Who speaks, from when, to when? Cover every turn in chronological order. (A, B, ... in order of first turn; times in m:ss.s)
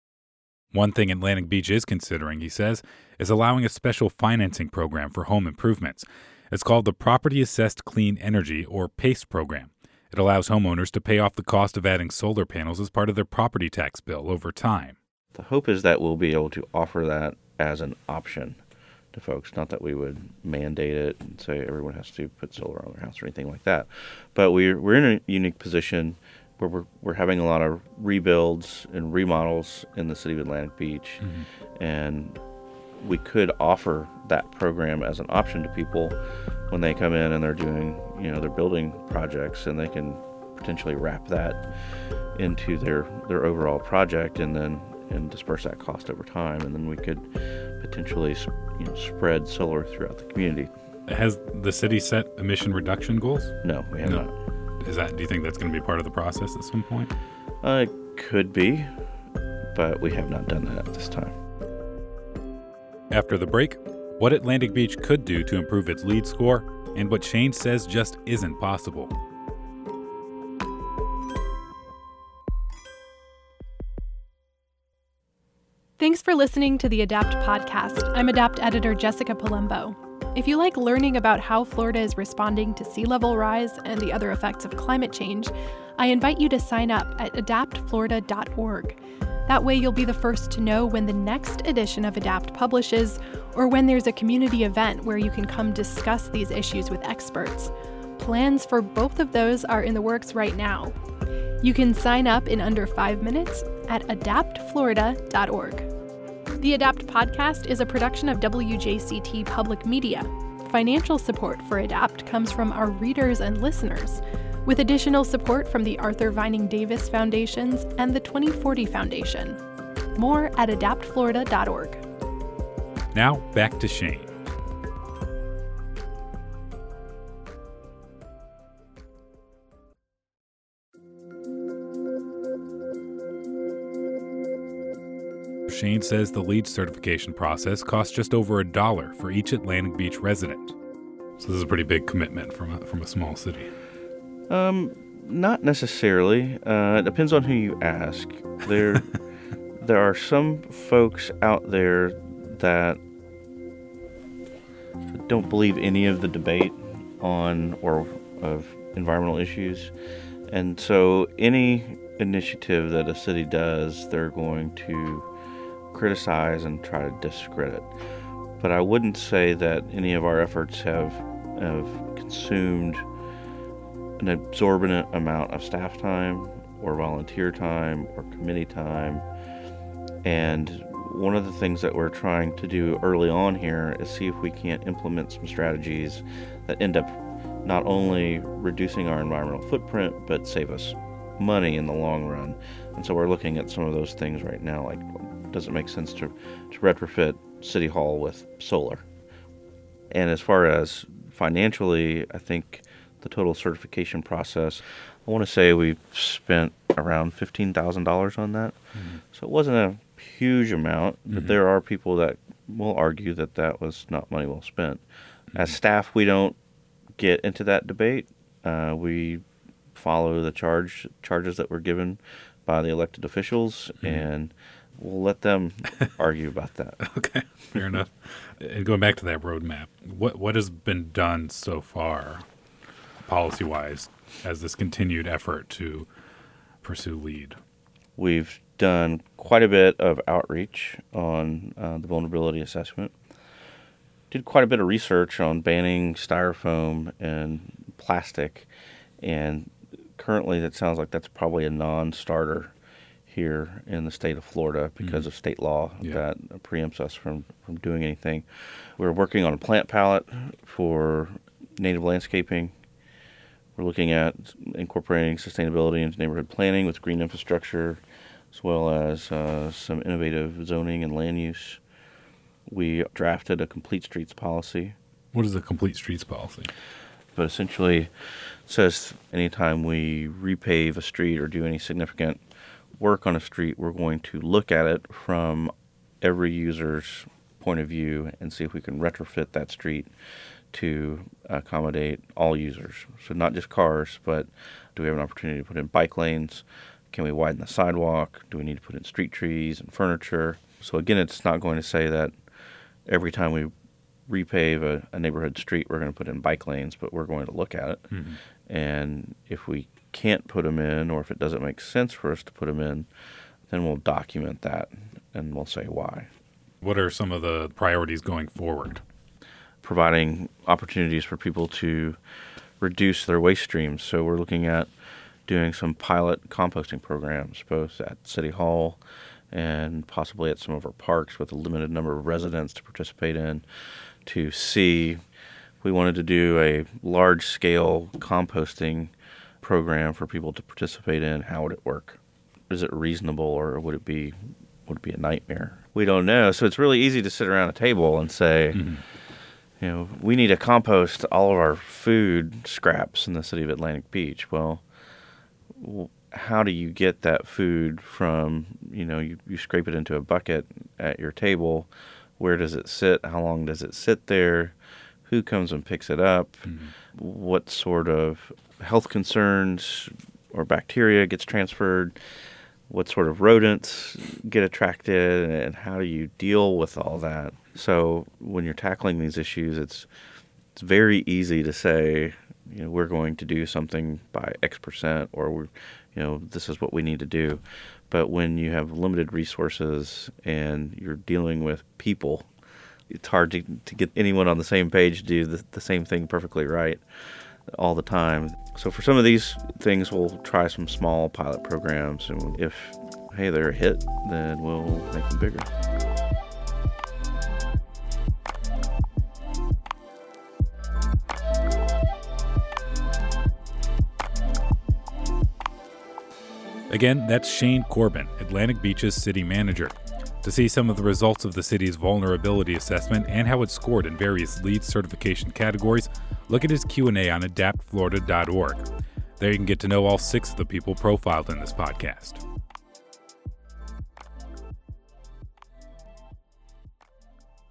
0:00.7-0:15.0 A
0:15.3-0:18.6 B
0:19.1-0:31.2 B
0:31.2-0:31.5 A
0:31.8-0:32.4 B
0:33.0-0:36.2 B
0:36.7-0:41.6 B
0:42.4-0:47.3 B
0:47.8-0:50.7 B
0:51.1-0:54.2 A
0:53.6-0:54.3 B
0:54.8-0:57.1 A
0:57.6-0:58.9 B
0:59.7-1:01.4 B
1:03.1-1:09.1 A
1:16.0-1:40.9 C
1:41.6-1:45.9 C
1:46.6-1:59.6 C
2:00.2-2:02.0 C
2:03.1-2:04.3 A
2:15.7-2:20.8 A
2:21.4-2:23.7 A
2:24.5-2:29.1 B
2:29.8-2:33.0 B
2:35.1-2:39.9 B
2:40.5-2:45.3 B
2:45.9-2:47.9 B
2:48.6-2:53.0 B
2:54.2-2:59.2 B
3:00.2-3:19.0 B
3:20.1-3:35.0 B
3:35.5-3:36.6 B
3:37.2-3:39.4 B
3:39.9-3:47.0 B
3:47.0-3:52.4 A
3:53.2-3:56.1 A
3:56.8-3:57.6 A
3:58.2-4:03.1 B
4:04.3-4:08.7 B
4:09.2-4:12.7 B
4:13.3-4:22.7 B
4:23.8-4:28.0 B
4:28.5-4:31.8 B
4:32.7-4:34.9 B
4:35.3-4:36.7 A
4:37.4-4:38.1 B
4:38.7-4:42.4 B
4:43.0-4:50.1 B
4:50.7-5:02.3 B
5:03.1-5:03.7 B
5:04.3-5:08.1 B
5:08.1-5:08.4 A
5:08.7-5:13.1 B
5:13.7-5:16.3 B
5:16.8-5:19.0 A
5:19.8-5:22.2 B
5:22.8-5:24.9 B
5:25.5-5:29.0 B
5:29.5-5:33.6 B
5:34.2-5:35.2 B
5:35.8-5:42.2 B
5:42.7-5:48.9 B
5:48.7-5:49.0 A
5:49.8-5:54.8 B
5:55.8-6:04.7 B
6:05.2-6:12.2 B
6:06.6-6:06.9 A
6:12.9-6:20.1 B
6:20.7-6:32.5 B
6:33.1-6:37.0 B
6:37.7-6:45.7 B
6:56.9-7:08.9 A
7:09.4-7:12.4 A